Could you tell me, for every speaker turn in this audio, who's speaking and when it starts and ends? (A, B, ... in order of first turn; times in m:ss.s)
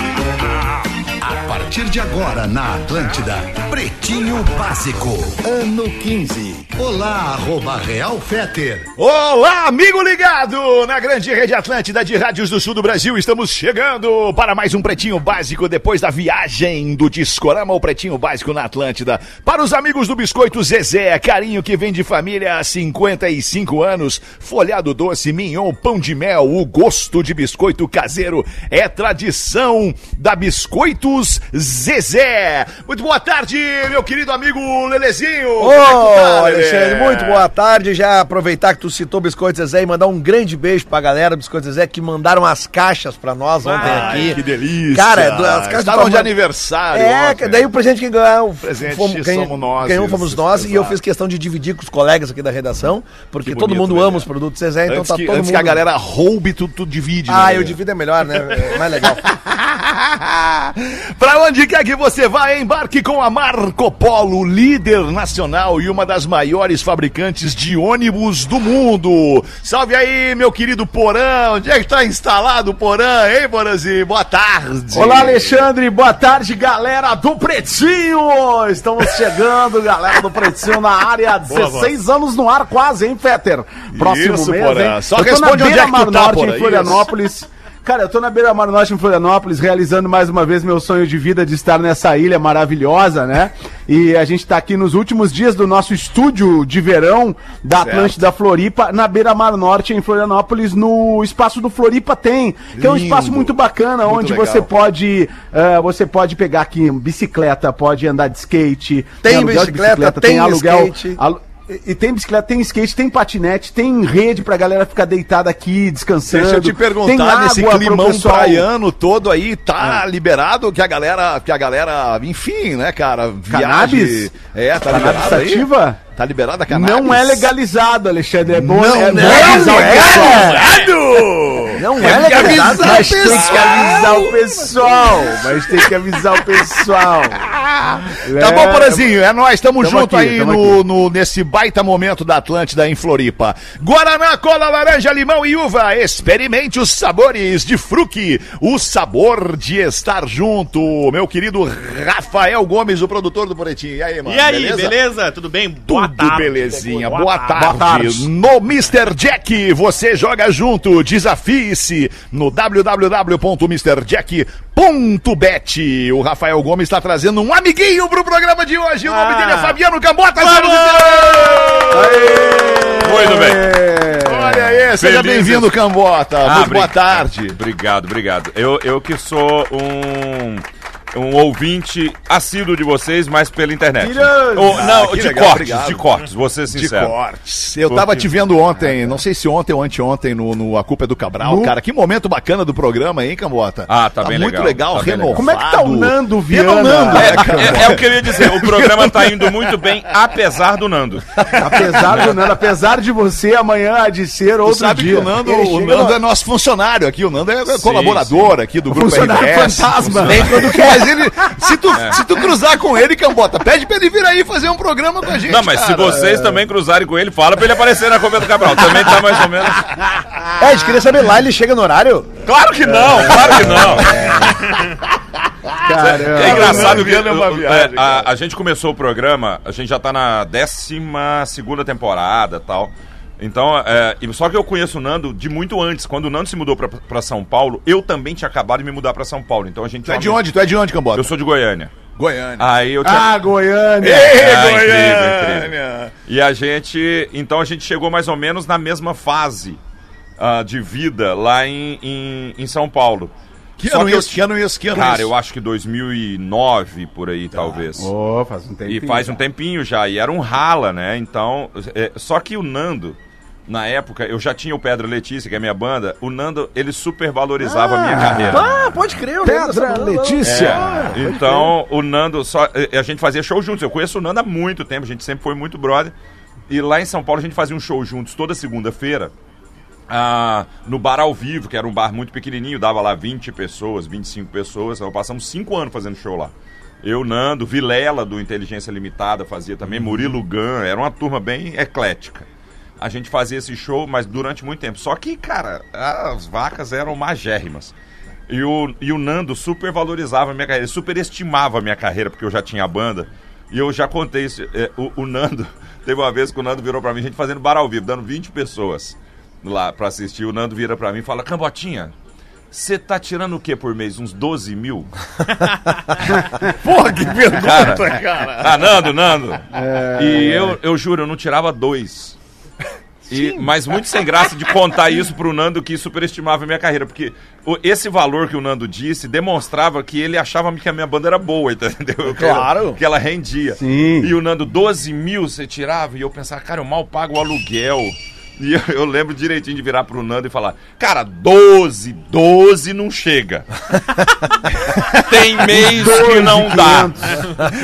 0:01.2-0:08.9 A
0:09.0-0:37.5 B
0:35.6-0:46.3 C
0:43.6-0:47.8 B
0:43.8-0:44.2 D
0:46.9-0:55.8 C
0:48.6-0:51.0 B
0:53.4-0:54.3 B
0:54.9-0:57.8 B
0:57.3-0:59.3 C
0:58.4-1:15.7 B
1:14.9-1:58.7 E
1:21.5-1:22.0 D
1:23.9-1:27.1 B
1:37.8-1:38.2 B
1:42.7-1:44.7 B
1:49.2-1:51.2 C
1:56.3-2:07.5 B
2:03.5-2:04.3 E
2:04.9-2:06.0 E
2:06.7-2:10.6 E
2:08.5-2:15.8 B
2:09.0-2:10.7 C
2:10.6-2:10.9 D
2:11.8-2:14.3 C
2:12.0-2:17.4 E
2:17.4-2:35.0 B
2:18.2-2:19.1 E
2:19.8-2:20.8 E
2:34.2-2:37.7 D
2:35.9-2:53.6 B
2:37.6-2:38.3 E
2:49.1-2:49.8 D
2:50.4-2:51.8 D
2:51.9-2:54.8 E
2:53.0-2:53.6 F
2:54.2-2:57.6 B
2:55.0-2:55.7 F
2:56.4-3:07.2 F
3:04.0-3:04.9 E
3:04.7-3:06.1 B
3:06.7-3:19.8 B
3:07.9-3:08.3 F
3:11.4-3:11.7 E
3:13.9-3:15.4 F
3:15.3-3:18.0 E
3:17.1-3:22.3 F
3:21.6-3:26.2 E
3:24.6-3:36.4 B
3:27.7-3:28.6 F
3:28.9-3:31.0 E
3:30.2-3:30.8 F
3:31.9-3:32.2 F
3:35.5-3:40.1 F
3:40.6-3:42.3 C
3:42.4-3:44.7 F
3:43.0-3:44.6 E
3:45.8-3:47.0 E
3:46.0-4:00.4 F
3:46.2-3:48.3 B
4:00.0-4:01.3 B
4:01.2-4:01.9 F
4:02.2-4:02.7 B
4:02.6-4:03.4 F
4:03.0-4:04.4 E
4:04.0-4:06.1 B
4:04.3-4:05.7 F
4:06.3-4:09.8 F
4:10.4-4:18.1 F
4:13.8-4:15.3 B
4:17.5-4:19.4 E
4:18.9-4:28.9 F
4:27.6-4:28.7 E
4:28.5-4:31.7 C
4:29.4-4:31.2 E
4:30.4-4:36.1 F
4:36.7-4:39.3 F
4:40.1-4:52.5 F
4:53.0-4:57.9 F
4:58.5-5:12.1 F
5:12.7-5:15.1 F
5:16.8-5:19.1 B
5:17.6-5:19.6 F
5:19.7-5:20.8 E
5:20.2-5:22.4 F
5:23.3-5:23.7 C
5:23.3-5:43.7 F
5:32.2-5:33.0 C
5:33.8-5:34.3 E
5:44.9-5:47.4 F
5:45.6-5:47.5 E